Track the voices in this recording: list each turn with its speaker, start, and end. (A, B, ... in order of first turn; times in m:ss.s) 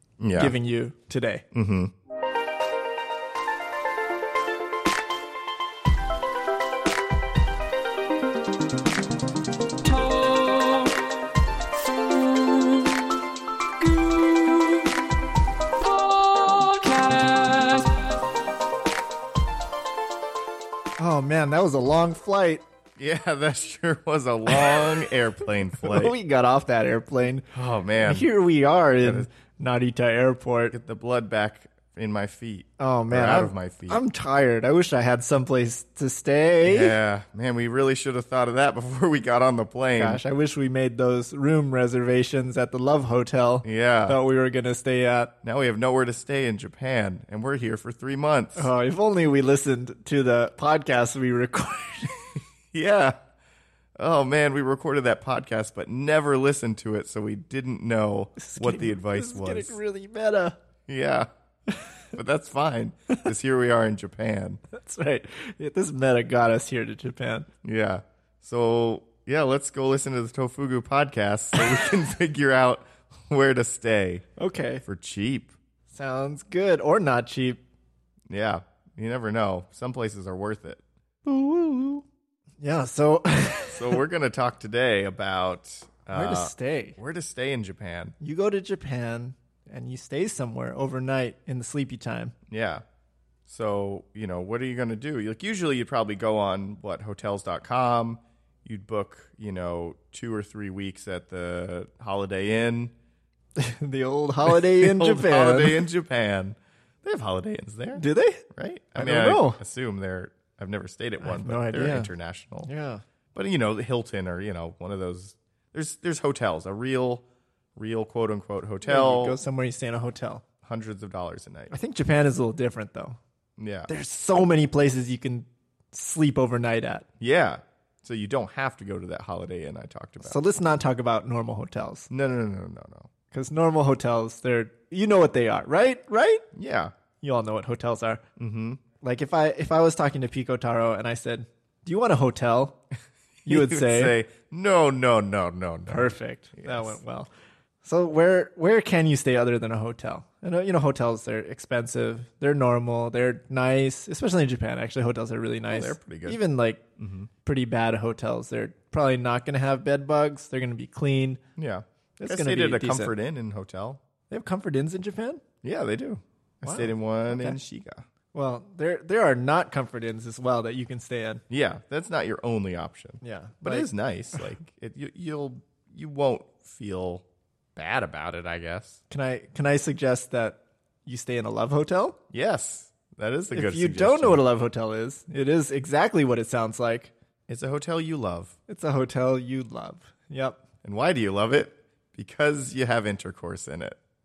0:00.2-0:00.6 A
0:00.4-0:01.4 B
0:01.5-0:01.9 A
0:16.6-0:17.8 B
0:21.0-0:22.6 B
0:23.0-0:26.2 A
0:24.5-0:24.8 B
0:25.8-0:30.8 B
0:27.5-0:28.3 A
0:29.0-0:29.3 A
0:30.7-0:34.0 A
0:32.8-0:37.0 B
0:36.6-0:40.2 A
0:40.0-0:45.3 B
0:43.6-0:44.2 A
0:45.4-0:48.7 A
0:48.6-0:52.4 B
0:52.7-0:53.2 A
0:54.0-0:59.8 A
0:58.4-1:00.6 B
1:00.9-1:01.3 A
1:02.1-1:04.6 A
1:04.7-1:07.5 B
1:07.6-1:14.2 A
1:14.4-1:14.8 B
1:14.8-1:15.5 A
1:15.9-1:17.6 B
1:18.3-1:20.8 A
1:21.2-1:22.0 B
1:22.6-1:24.0 B
1:23.7-1:28.2 A
1:26.1-1:27.0 B
1:28.2-1:32.4 B
1:32.5-1:32.8 A
1:33.5-1:42.9 A
1:43.6-1:45.9 B
1:44.4-1:52.7 A
1:48.0-1:49.6 B
1:51.2-1:52.1 B
1:52.6-1:53.0 B
1:53.3-1:57.2 A
1:57.8-1:59.4 A
1:58.8-2:00.4 B
2:00.6-2:01.7 A
2:01.7-2:03.2 B
2:03.6-2:03.9 A
2:03.9-2:07.1 B
2:07.2-2:10.4 A
2:10.2-2:12.1 B
2:12.1-2:13.1 A
2:13.3-2:16.5 B
2:16.5-2:16.9 A
2:17.2-2:18.2 B
2:18.4-2:18.8 A
2:19.0-2:22.8 B
2:23.4-2:27.0 A
2:23.5-2:24.2 B
2:25.9-2:27.3 B
2:27.8-2:36.8 B
2:35.7-2:36.4 A
2:37.0-2:37.3 A
2:37.4-2:41.4 B
2:41.6-2:44.0 A
2:42.2-2:43.1 B
2:44.3-2:45.4 B
2:45.6-2:48.0 A
2:46.6-2:47.6 B
2:48.3-2:51.4 B
2:51.5-2:59.0 A
2:53.2-2:54.4 B
2:59.1-3:02.2 B
3:02.3-3:04.4 A
3:03.5-3:07.1 B
3:07.5-3:08.6 A
3:08.7-3:10.6 B
3:10.8-3:14.0 A